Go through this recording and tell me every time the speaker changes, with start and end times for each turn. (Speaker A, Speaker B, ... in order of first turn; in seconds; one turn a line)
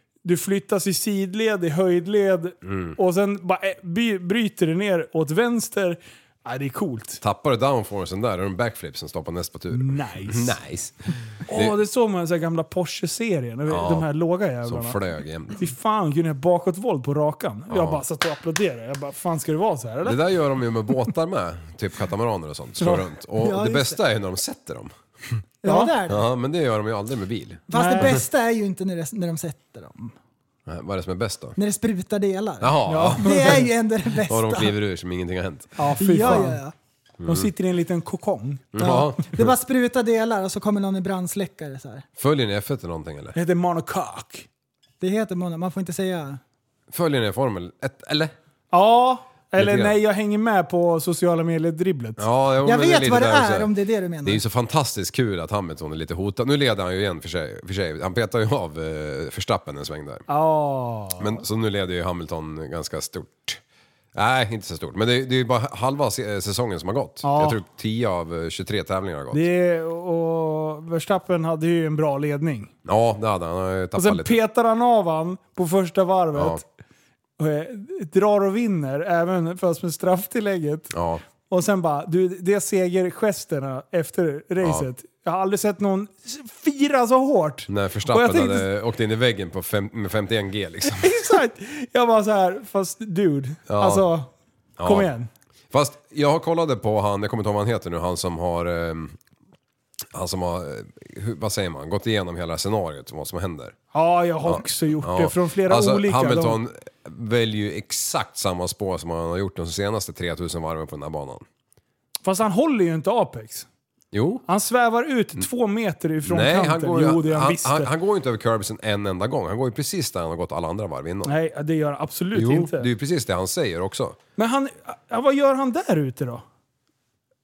Speaker A: 0.2-7.2
Speaker B: 2.6-3.0
Speaker B: 7.2-11.8
Speaker A: 9.7-10.6
Speaker A: 11.5-15.0
Speaker B: 13.7-14.1
Speaker B: 14.6-15.6
Speaker A: 15.6-20.2
Speaker B: 17.7-18.0
Speaker B: 20.0-25.4
Speaker A: 22.8-23.0
Speaker C: 23.4-24.0
Speaker C: 25.6-26.3
Speaker A: 25.6-25.9
Speaker B: 26.1-28.2
Speaker C: 27.7-30.1
Speaker A: 27.7-28.2
Speaker B: 30.7-31.6
Speaker C: 31.6-34.7
Speaker B: 32.6-36.5
Speaker A: 32.9-33.7
Speaker A: 35.8-36.6
Speaker C: 36.0-36.7
Speaker B: 37.2-37.5
Speaker A: 37.2-38.7
Speaker B: 38.7-39.5
Speaker C: 38.8-42.0
Speaker B: 42.2-43.4
Speaker A: 43.3-44.5
Speaker C: 45.0-46.4
Speaker B: 46.9-48.3
Speaker A: 48.7-52.2
Speaker B: 49.6-49.9
Speaker B: 52.2-53.7
Speaker C: 52.6-54.4
Speaker B: 54.2-60.2
Speaker A: 60.3-61.4
Speaker B: 61.2-63.6
Speaker B: 64.1-69.4
Speaker A: 67.2-67.6
Speaker A: 69.3-72.7
Speaker B: 72.8-74.4
Speaker A: 74.0-76.6
Speaker B: 76.3-76.6
Speaker A: 77.4-80.9
Speaker B: 80.9-81.2
Speaker A: 81.5-88.7
Speaker B: 87.7-91.1
Speaker A: 90.9-94.3
Speaker B: 93.7-94.0
Speaker B: 94.8-95.1
Speaker A: 94.8-95.3
Speaker B: 95.7-99.2
Speaker B: 100.1-103.8
Speaker A: 103.9-106.6
Speaker B: 104.4-111.4
Speaker A: 112.2-113.7
Speaker B: 114.1-114.4
Speaker A: 114.5-117.9
Speaker B: 116.2-121.3
Speaker A: 121.2-122.9
Speaker B: 122.3-124.2
Speaker A: 124.4-126.4